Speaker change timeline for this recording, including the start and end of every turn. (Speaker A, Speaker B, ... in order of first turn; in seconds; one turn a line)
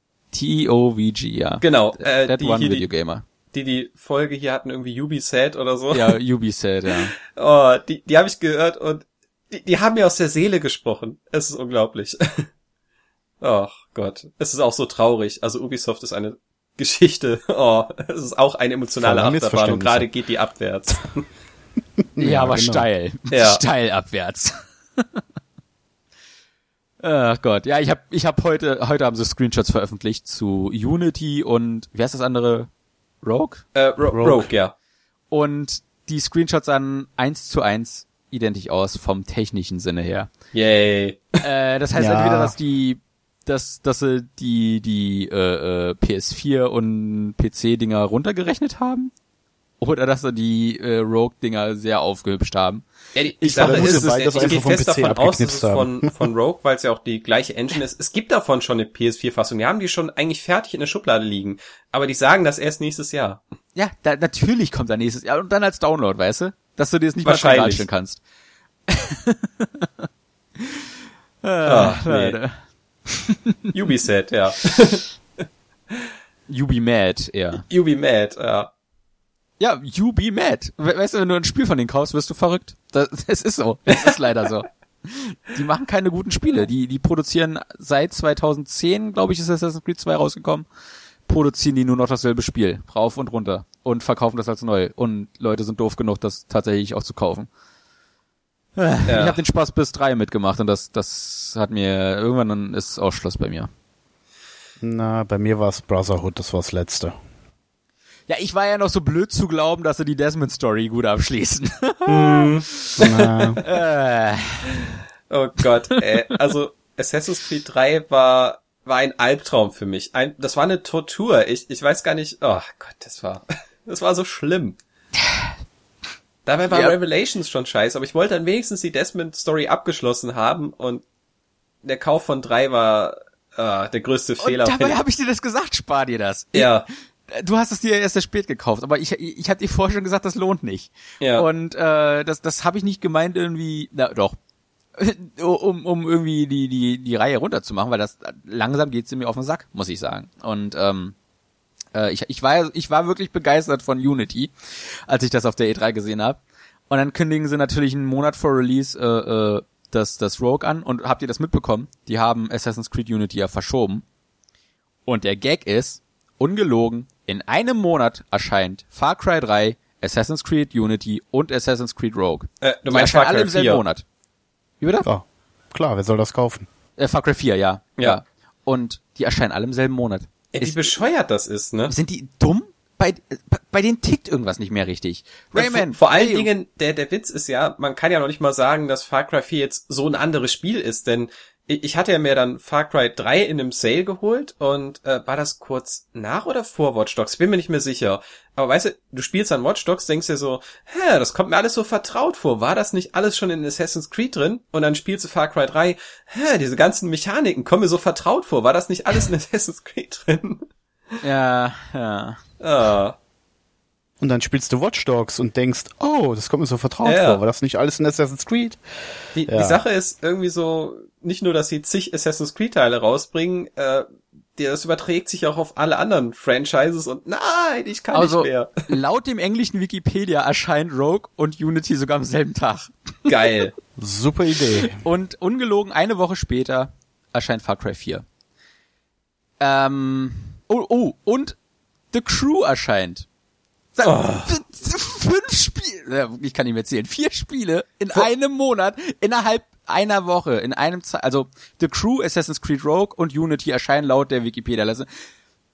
Speaker A: 0.3-3.2
Speaker B: 1.6-2.9
Speaker B: 3.5-6.2
Speaker A: 5.9-7.2
Speaker B: 7.2-12.5
Speaker B: 13.4-21.2
Speaker C: 19.0-20.1
Speaker C: 22.1-22.9
Speaker A: 22.2-25.1
Speaker B: 23.3-23.6
Speaker A: 27.0-32.7
Speaker A: 33.2-33.7
Speaker B: 33.8-34.7
Speaker C: 34.1-34.5
Speaker A: 35.3-40.3
Speaker B: 40.5-41.3
Speaker A: 41.4-49.1
Speaker C: 42.0-42.5
Speaker A: 49.8-52.9
Speaker B: 53.1-63.4
Speaker A: 53.4-54.7
Speaker C: 53.5-56.1
Speaker A: 63.8-68.2
Speaker B: 67.2-67.9
Speaker A: 68.9-69.9
Speaker A: 71.4-72.6
Speaker B: 71.7-72.4
Speaker A: 73.1-73.5
Speaker B: 73.7-75.0
Speaker A: 76.5-77.6
Speaker B: 77.6-78.7
Speaker A: 79.6-90.7
Speaker A: 91.3-97.5
Speaker A: 98.8-103.7
Speaker B: 99.1-99.4
Speaker C: 104.8-107.2
Speaker A: 108.3-115.0
Speaker B: 112.1-113.3
Speaker C: 113.0-113.6
Speaker B: 115.3-124.8
Speaker B: 126.5-131.0
Speaker B: 131.8-135.0
Speaker A: 134.4-144.4
Speaker B: 136.5-136.9
Speaker B: 141.2-141.5
Speaker A: 145.0-151.2
Speaker A: 151.9-164.0
Speaker A: 165.1-174.1
Speaker B: 172.6-173.8
Speaker A: 174.8-175.1
Speaker C: 175.0-176.7
Speaker A: 177.0-180.9
Speaker B: 180.5-181.9
Speaker A: 181.9-186.5
Speaker B: 185.6-210.6
Speaker A: 211.2-212.4
Speaker B: 212.6-213.2
Speaker C: 214.2-218.8
Speaker B: 217.0-217.4
Speaker B: 219.3-228.8
Speaker C: 219.5-219.8
Speaker A: 228.1-233.5
Speaker B: 233.3-233.7
Speaker C: 234.0-235.0
Speaker A: 234.6-238.2
Speaker A: 239.6-241.6
Speaker A: 242.1-243.3
Speaker A: 243.9-255.1
Speaker B: 244.0-244.6